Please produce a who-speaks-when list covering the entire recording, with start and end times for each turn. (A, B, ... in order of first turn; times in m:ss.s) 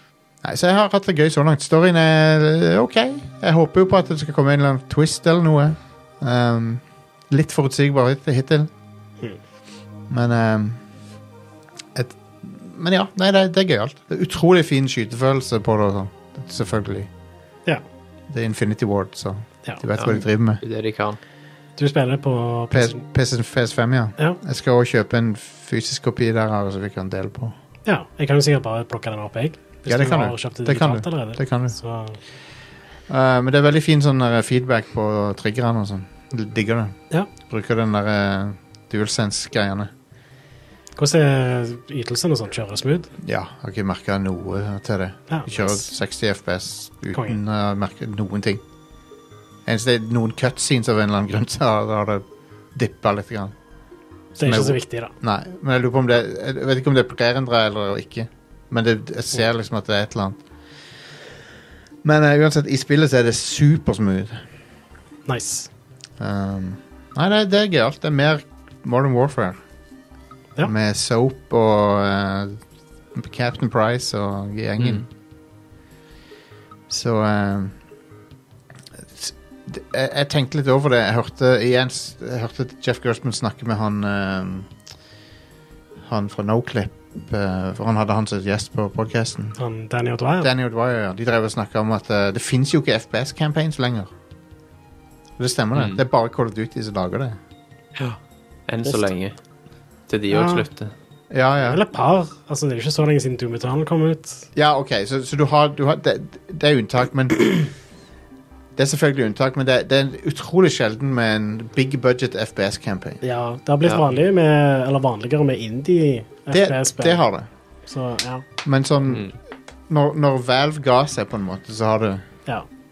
0:00.4-0:08.7 A
0:10.1-0:10.8 A
0:11.9-0:17.1 A
0:18.3-0:20.6 A
0:20.0-0:21.2 B
0:21.8-0:23.0 C
0:22.7-0:27.5 A
0:27.8-0:32.2 C
0:29.8-0:31.7 A
0:33.1-0:39.9 A
0:41.0-0:43.1 C
0:43.2-0:48.6 A
0:45.3-0:45.8 C
0:47.1-0:47.4 C
0:49.6-0:53.5 A
0:54.4-0:55.1 C
0:54.4-1:00.4 A
1:02.0-1:04.4 A
1:05.3-1:05.7 C
1:06.2-1:09.6 A
1:10.6-1:12.6 A
1:13.1-1:15.1 A
1:14.8-1:15.0 B
1:16.9-1:17.7 A
1:19.1-1:24.7 A
1:26.0-1:29.6 A
1:29.6-1:30.5 C
1:30.4-1:34.1 A
1:35.4-1:37.4 A
1:38.0-1:39.3 B
1:40.1-1:40.9 B
1:40.3-1:40.7 C
1:41.3-1:41.8 A
1:41.6-1:44.4 C
1:44.5-1:47.7 A
1:48.8-1:53.2 A
1:53.2-1:57.2 C
1:56.5-1:57.5 A
1:57.9-1:58.4 C
1:58.6-1:59.3 A
1:59.1-1:59.3 B
1:59.9-2:02.2 A